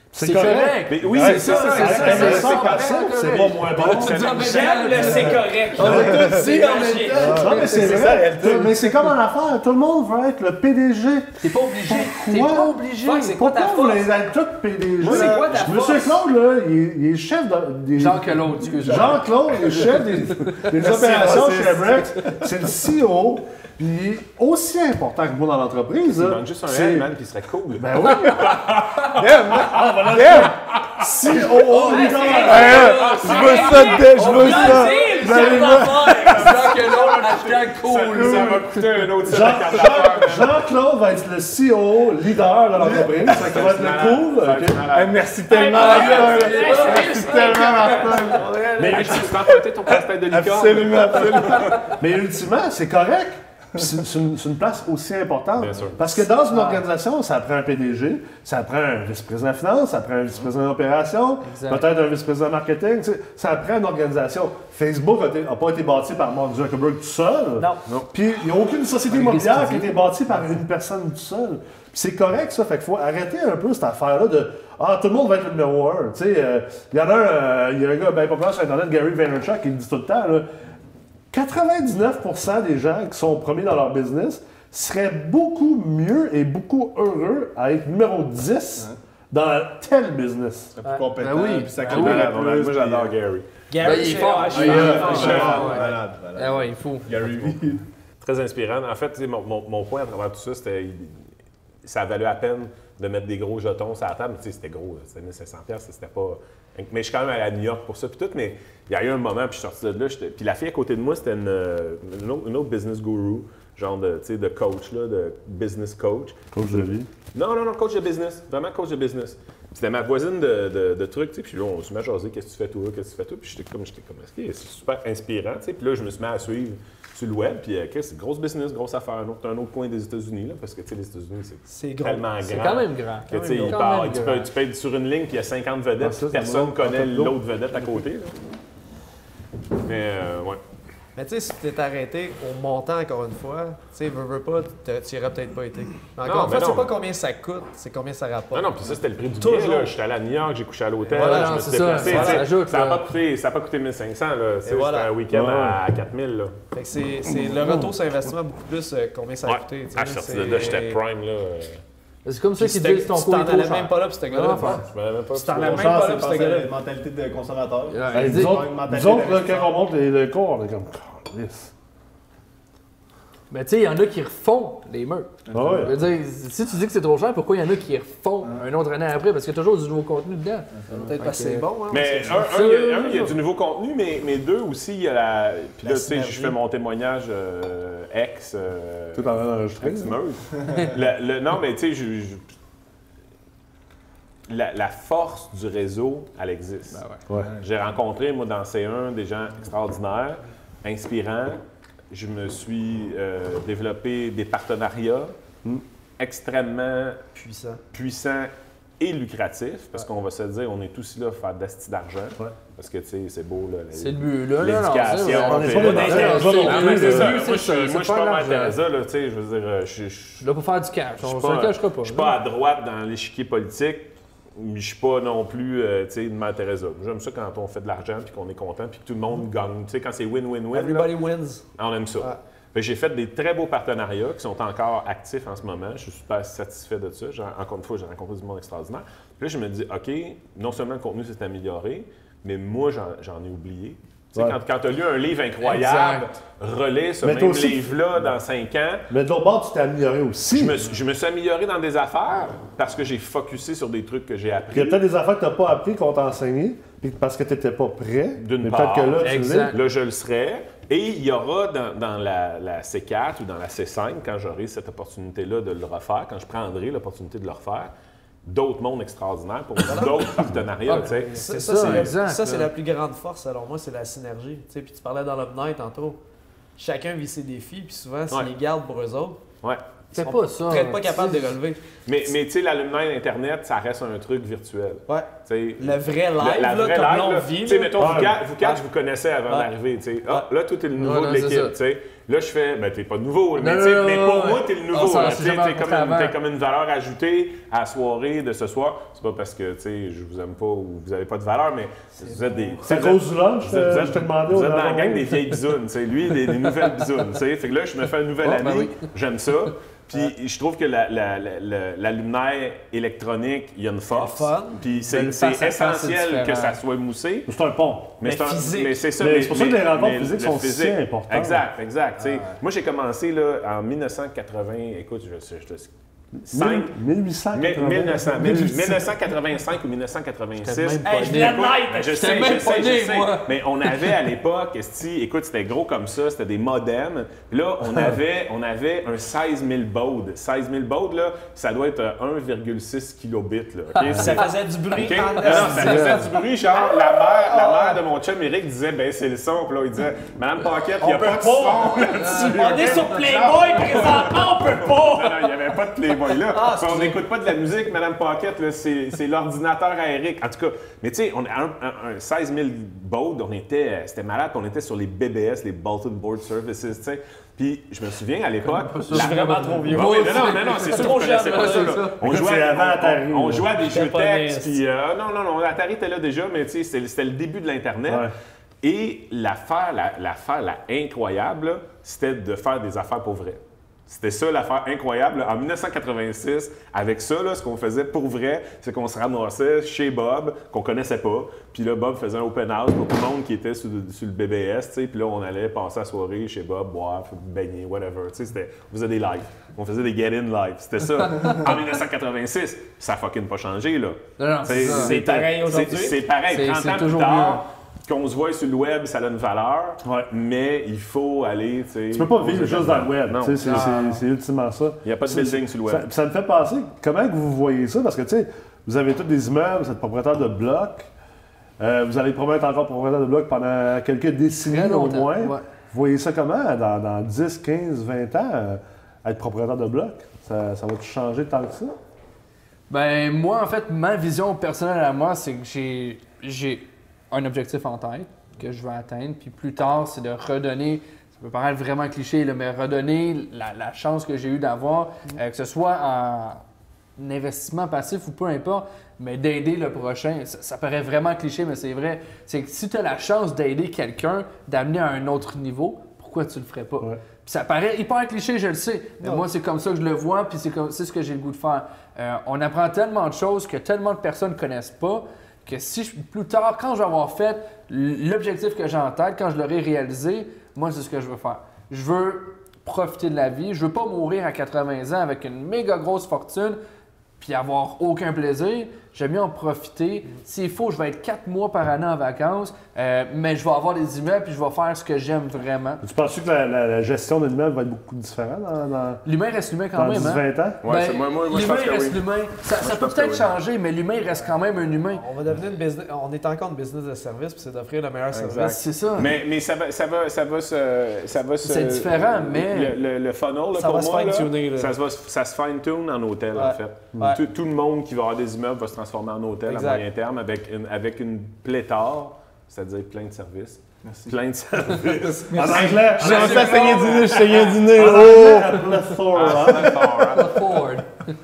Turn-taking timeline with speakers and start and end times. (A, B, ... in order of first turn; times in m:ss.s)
0:00.1-0:04.3 A
0:00.2-0:07.6 B
0:00.3-0:05.3 C
0:01.1-0:02.4 D
0:04.3-0:07.5 E
0:05.8-0:12.8 A
0:05.8-0:06.4 D
0:07.2-0:09.1 D
0:11.4-0:13.4 B
0:13.0-0:14.2 E
0:13.3-0:27.1 A
0:15.0-0:16.2 E
0:15.0-0:15.8 C
0:18.0-0:20.7 B
0:20.7-0:22.5 D
0:26.1-0:29.2 C
0:27.8-0:28.7 A
0:28.0-0:30.5 D
0:29.5-0:32.8 A
0:30.1-0:31.1 C
0:31.4-0:36.5 D
0:31.6-0:38.8 B
0:31.9-0:32.7 E
0:32.2-0:34.2 C
0:34.3-0:36.3 E
0:35.2-0:35.9 A
0:36.0-0:40.6 C
0:38.1-0:38.6 D
0:39.2-0:44.8 A
0:42.8-0:43.2 D
0:43.2-0:47.3 C
0:44.9-0:51.9 D
0:45.6-0:48.5 B
0:48.3-0:49.5 A
0:48.5-0:49.0 E
0:48.8-0:51.6 C
0:51.9-1:20.4 A
0:55.6-0:56.0 C
1:01.4-1:01.8 B
1:07.6-1:07.8 E
1:09.1-1:10.0 B
1:21.3-1:30.7 A
1:30.8-1:33.2 D
1:31.2-1:32.3 B
1:31.8-1:35.9 C
1:33.7-1:35.7 E
1:33.8-1:37.1 B
1:34.4-1:37.8 D
1:38.2-1:41.3 C
1:41.8-1:56.8 C
1:56.5-1:57.1 A
1:57.3-2:18.3 C
2:11.7-2:12.7 E
2:12.4-2:14.5 B
2:13.3-2:13.8 E
2:16.0-2:18.0 A
2:19.8-2:20.6 C
2:21.2-2:28.7 E
2:26.2-2:26.9 C
2:28.5-2:36.5 C
2:29.4-2:29.9 E
2:31.0-2:32.5 E
2:31.1-2:33.1 B
2:34.6-2:35.1 E
2:35.3-2:35.8 A
2:36.7-2:41.0 E
2:37.3-2:37.9 A
2:39.4-2:41.8 C
2:42.2-2:44.8 B
2:42.6-2:46.7 E
2:44.6-2:46.0 C
2:45.6-2:49.7 D
2:47.9-2:48.6 B
2:48.1-2:51.7 A
2:53.5-3:01.7 B
2:55.5-2:56.0 D
2:55.5-2:55.9 A
3:01.0-3:02.4 E
3:01.9-3:12.4 C
3:02.3-3:03.4 B
3:05.8-3:06.6 E
3:09.1-3:10.2 A
3:14.5-3:25.3 C
3:16.9-3:17.2 B
3:26.2-3:27.2 C
3:27.3-3:27.8 E
3:27.9-3:40.4 C
3:33.9-3:38.8 B
3:35.3-3:37.4 A
3:35.8-3:36.6 E
3:40.4-3:42.4 B
3:41.2-3:51.1 C
3:50.7-3:51.6 E
3:51.8-4:09.1 C
4:05.6-4:06.3 B
4:07.2-4:07.9 A
4:09.1-4:10.9 A
4:10.5-4:15.0 C
4:14.7-4:19.7 A
4:18.4-4:27.9 C
4:19.2-4:19.8 B
4:28.4-4:32.1 C
4:29.8-4:30.3 E
4:30.8-4:32.7 B
4:31.2-4:36.2 E
4:36.8-4:39.4 E
4:40.1-4:41.5 B
4:40.2-4:41.8 E
4:42.0-5:17.5 C
4:45.1-4:48.8 E
4:48.0-4:48.4 A
4:51.0-4:51.7 B
4:53.6-4:56.4 B
5:02.2-5:02.6 E
5:02.8-5:05.4 A
5:08.4-5:09.0 B
5:14.1-5:14.8 E
5:15.1-5:16.8 B
5:17.5-5:18.2 A
5:18.2-5:25.9 C
5:18.2-5:19.0 E
5:19.2-5:21.6 A
5:22.2-5:22.6 E
5:26.4-5:26.9 C
5:26.5-5:29.1 A
5:27.5-6:18.3 C
5:30.6-5:34.1 B
5:31.0-5:32.4 E
5:44.1-5:48.0 E
5:45.5-5:45.9 B
5:45.8-5:46.3 A
5:51.0-5:55.5 E
5:52.2-5:52.6 B
5:56.5-5:57.2 E
6:08.7-6:12.2 B
6:09.1-6:12.0 E
6:12.2-6:13.7 A
6:13.8-6:14.8 E
6:18.1-6:18.3 A
6:18.8-6:54.0 C
6:41.2-6:41.6 B
6:44.4-6:45.2 B
6:44.8-6:46.2 E
6:46.5-6:47.6 B
6:50.0-6:50.3 A
6:52.1-7:01.1 A
6:53.6-6:54.2 B
6:55.0-6:56.0 C
7:01.8-7:11.9 A
7:04.7-7:05.6 B
7:12.9-7:26.6 B
7:27.2-7:56.8 B
7:57.4-8:06.0 B
8:06.0-8:09.2 A
8:09.2-8:15.2 B
8:09.9-8:10.8 A
8:10.8-8:13.5 C
8:15.1-8:18.8 E
8:18.3-8:37.9 C
8:18.6-8:19.3 B
8:21.6-8:23.0 B
8:23.8-8:24.9 E
8:26.5-8:27.4 E
8:29.7-8:30.0 E
8:34.9-8:38.8 D
8:35.5-8:36.8 A
8:36.2-8:37.7 B
8:37.9-8:40.2 A
8:39.3-8:40.6 C
8:40.2-8:41.3 B